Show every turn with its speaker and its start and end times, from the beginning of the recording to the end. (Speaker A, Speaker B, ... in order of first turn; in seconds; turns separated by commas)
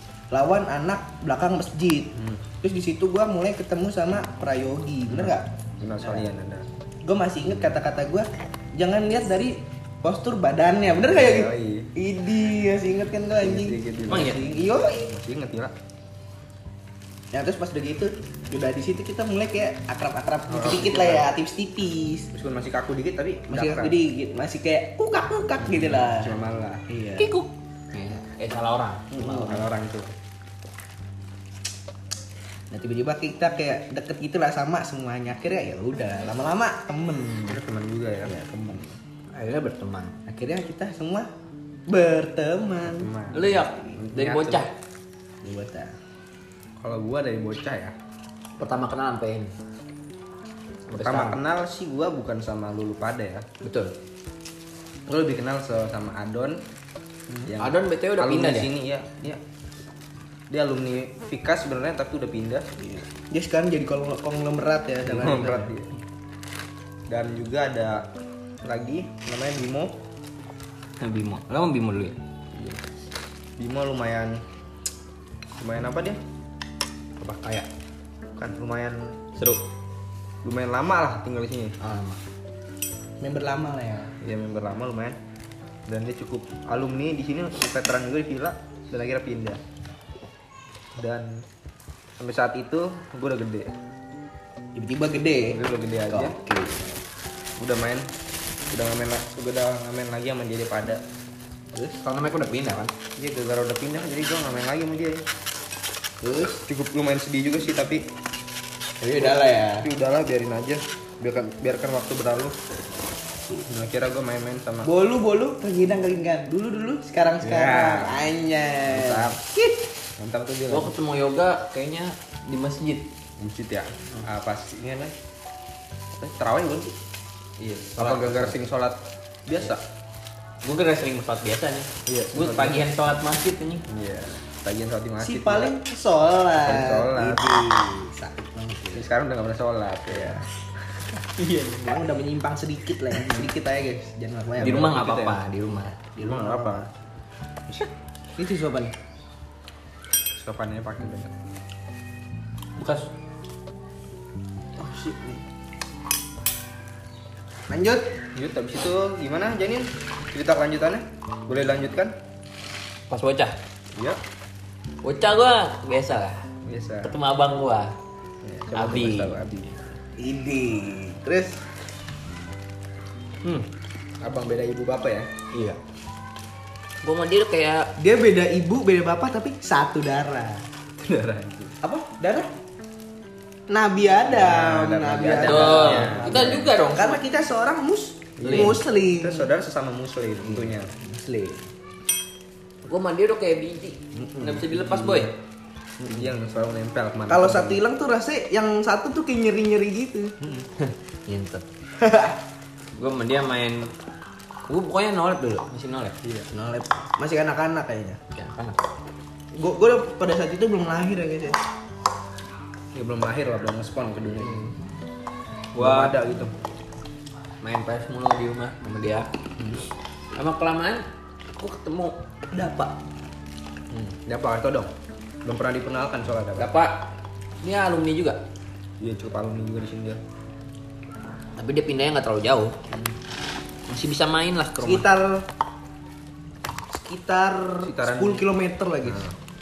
Speaker A: 0.3-2.1, Speaker B: 2.1-2.4, Speaker A: 2.6-5.5, Speaker B: 5.1-6.7, Speaker A: 6.0-6.2, Speaker A: 7.0-15.1, Speaker B: 11.0-11.9, Speaker B: 13.3-15.7, Speaker C: 14.1-14.4, Speaker A: 17.3-22.3, Speaker B: 20.5-21.3, Speaker B: 22.3-24.0, Speaker A: 23.5-26.3, Speaker B: 25.6-26.8, Speaker A: 26.9-27.3, Speaker C: 27.2-29.6, Speaker A: 29.1-29.6, Speaker B: 29.2-30.1, Speaker A: 32.7-37.6, Speaker B: 37.5-38.3, Speaker A: 38.2-39.0, Speaker C: 39.3-40.1, Speaker A: 40.2-41.3, Speaker A: 41.9-43.1, Speaker B: 42.9-44.7, Speaker C: 43.3-44.7, Speaker A: 45.4-45.9, Speaker B: 46.8-48.0, Speaker C: 48.6-49.5, Speaker C: 50.9-51.4, Speaker B: 50.9-53.5, Speaker C: 53.6-53.9, Speaker B: 55.1-56.6, Speaker B: 57.4-59.4, Speaker C: 57.5-58.7, Speaker B: 60.5-62.7, Speaker A: 62.8-65.7, Speaker B: 65.0-65.9, Speaker B: 67.1-68.1, Speaker B: 68.6-70.0, Speaker C: 71.0-72.2, Speaker B: 73.6-74.4, Speaker B: 75.6-76.2, Speaker C: 77.2-77.7, Speaker B: 78.4-79.2, Speaker C: 79.3-79.6, Speaker B: 80.4-81.8, Speaker C: 81.8-82.2, Speaker A: 83.2-84.1, Speaker B: 84.2-85.2, Speaker B: 85.9-89.6, Speaker B: 91.0-91.5, Speaker B: 92.2-93.7, Speaker A: 94.7-96.9, Speaker B: 95.5-96.4, Speaker B: 97.6-98.1, Speaker B: 98.7-101.0, Speaker C: 101.8-102.9, Speaker B: 103.2-105.2, Speaker B: 106.5-108.1, Speaker C: 109.0-109.8, Speaker B: 109.1-112.5, Speaker B: 113.6-114.9, Speaker A: 114.8-119.8, Speaker B: 117.4-118.2, Speaker B: 118.9-119.4, Speaker B: 120.2-120.9, Speaker C: 120.7-123.1, Speaker B: 123.4-125.1, Speaker B: 126.1-126.9, Speaker B: 127.6-129.8, Speaker C: 128.0-128.6, Speaker C: 130.6-133.8, Speaker B: 132.1-132.8, Speaker B: 133.9-135.8, Speaker A: 135.2-139.1, Speaker B: 136.6-137.6, Speaker B: 138.9-140.5, Speaker C: 141.5-141.9, Speaker A: 141.8-145.0, Speaker C: 144.6-146.0, Speaker B: 144.6-145.4, Speaker A: 146.2-146.9, Speaker B: 146.2-146.9, Speaker A: 148.4-148.9, Speaker B: 150.3-151.3, Speaker C: 152.8-153.1, Speaker A: 154.8-155.4, Speaker A: 157.7-158.1, Speaker B: 158.3-162.1, Speaker C: 163.1-163.5, Speaker B: 163.9-164.2, Speaker C: 165.0-166.4, Speaker B: 166.6-167.2, Speaker C: 167.0-167.9, Speaker B: 168.4-169.8, Speaker C: 168.7-169.3, Speaker A: 170.2-171.6, Speaker B: 174.2-175.3, Speaker C: 175.5-175.8, Speaker C: 177.0-177.8, Speaker A: 178.0-180.6, Speaker B: 181.0-181.7, Speaker A: 181.8-182.5, Speaker A: 183.7-189.5, Speaker B: 184.3-186.7, Speaker C: 185.3-187.2, Speaker B: 188.4-190.9, Speaker C: 188.4-188.8, Speaker A: 190.4-191.7, Speaker C: 192.8-195.4, Speaker A: 194.1-194.6, Speaker B: 195.0-195.3, Speaker A: 196.0-196.3, Speaker B: 196.1-197.8, Speaker A: 197.3-200.3, Speaker C: 200.8-201.6, Speaker A: 202.0-202.4, Speaker C: 202.9-203.9, Speaker C: 204.7-206.1, Speaker B: 206.2-206.5, Speaker A: 206.5-208.2, Speaker C: 208.3-208.8, Speaker A: 209.6-211.6, Speaker B: 212.9-214.7, Speaker B: 215.7-216.5, Speaker C: 215.8-216.2, Speaker C: 217.6-219.3, Speaker C: 220.3-221.0, Speaker C: 221.6-222.1, Speaker A: 222.5-222.9, Speaker B: 223.9-224.9, Speaker B: 225.4-226.7, Speaker C: 226.6-227.1, Speaker C: 227.6-228.4, Speaker B: 229.0-230.2, Speaker C: 231.6-232.8, Speaker C: 233.9-235.1, Speaker A: 234.8-235.4, Speaker A: 236.9-239.3, Speaker B: 237.8-238.4, Speaker B: 239.0-239.3